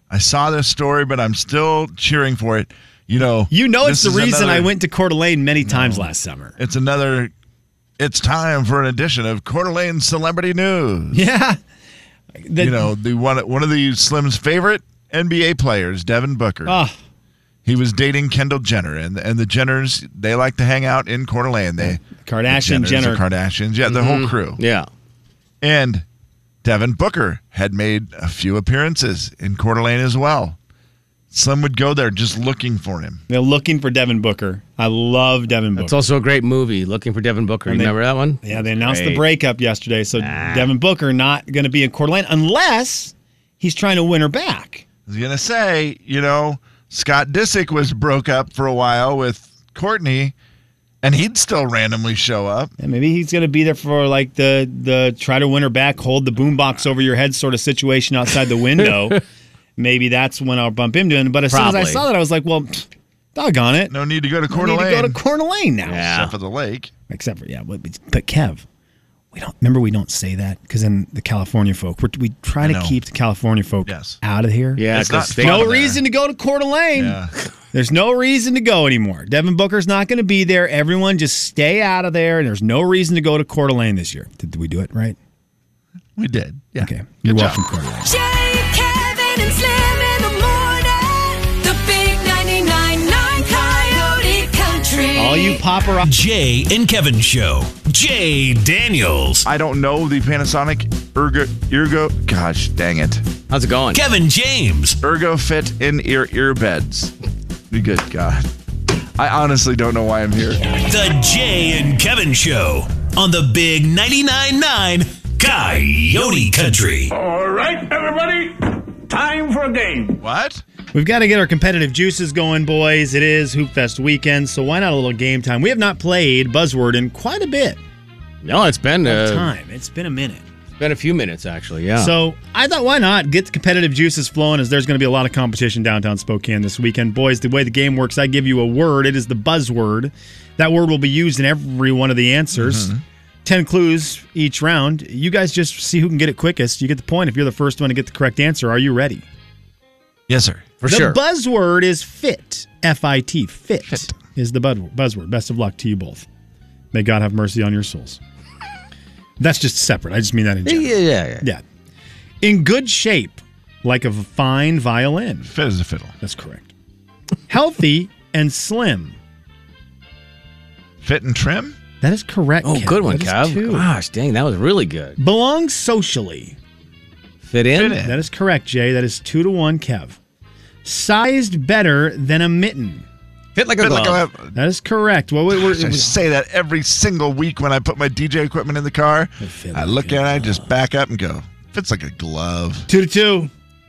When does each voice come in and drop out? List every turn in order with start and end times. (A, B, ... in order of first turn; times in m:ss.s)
0:00.1-0:04.7 A
0:03.5-0:06.5 B
0:05.6-0:07.3 A
0:08.0-0:11.2 A
0:11.1-0:11.6 B
0:12.4-0:12.9 B
0:12.6-0:16.8 A
0:16.6-0:17.0 B
0:17.6-0:24.6 A
0:21.8-0:23.2 B
0:23.9-0:24.9 C
0:25.6-0:26.0 A
0:26.6-0:30.6 A
0:31.3-0:33.2 A
0:33.3-0:36.0 B
0:35.8-0:39.2 C
0:37.7-0:44.8 B
0:40.2-0:40.7 C
0:45.1-0:50.4 A
0:51.0-0:52.7 A
0:52.8-0:59.2 B
0:59.8-1:04.0 B
1:01.5-1:02.0 C
1:03.9-1:05.2 A
1:04.5-1:06.1 B
1:05.8-1:06.3 C
1:06.0-1:06.9 A
1:07.1-1:08.6 B
1:09.3-1:17.2 B
1:12.6-1:13.0 A
1:13.9-1:14.2 A
1:14.8-1:15.8 C
1:14.9-1:16.0 A
1:17.0-1:17.3 A
1:17.7-1:25.2 B
1:26.2-1:27.6 A
1:26.8-1:28.1 B
1:28.0-1:35.6 D
1:35.1-1:36.1 B
1:36.0-1:39.5 E
1:39.4-1:43.2 A
1:43.5-1:44.0 C
1:43.9-1:45.0 E
1:45.0-1:47.1 A
1:47.7-1:48.5 A
1:49.2-1:50.6 A
1:50.8-1:57.1 E
1:57.1-2:00.2 F
2:00.2-2:00.6 A
2:00.9-2:07.8 B
2:08.4-2:09.5 C
2:09.0-2:10.4 B
2:10.8-2:12.1 C
2:12.0-2:22.9 B
2:22.5-2:23.0 A
2:23.4-2:29.2 B
2:30.3-2:30.7 A
2:30.8-2:31.2 C
2:30.9-2:36.2 B
2:36.9-2:38.2 B
2:39.4-2:41.6 B
2:40.6-2:41.5 C
2:42.4-2:45.5 B
2:45.4-2:46.1 A
2:46.2-2:46.7 B
2:47.5-2:49.2 B
2:51.0-2:51.8 A
2:52.0-2:53.9 B
2:52.6-2:55.2 C
2:55.2-2:56.6 B
2:57.4-2:58.0 C
2:57.7-2:58.2 A
2:58.0-3:00.2 B
3:00.8-3:03.0 B
3:03.5-3:04.2 C
3:03.8-3:04.6 A
3:04.5-3:06.2 B
3:05.5-3:12.9 A
3:09.4-3:10.6 B
3:12.9-3:13.5 B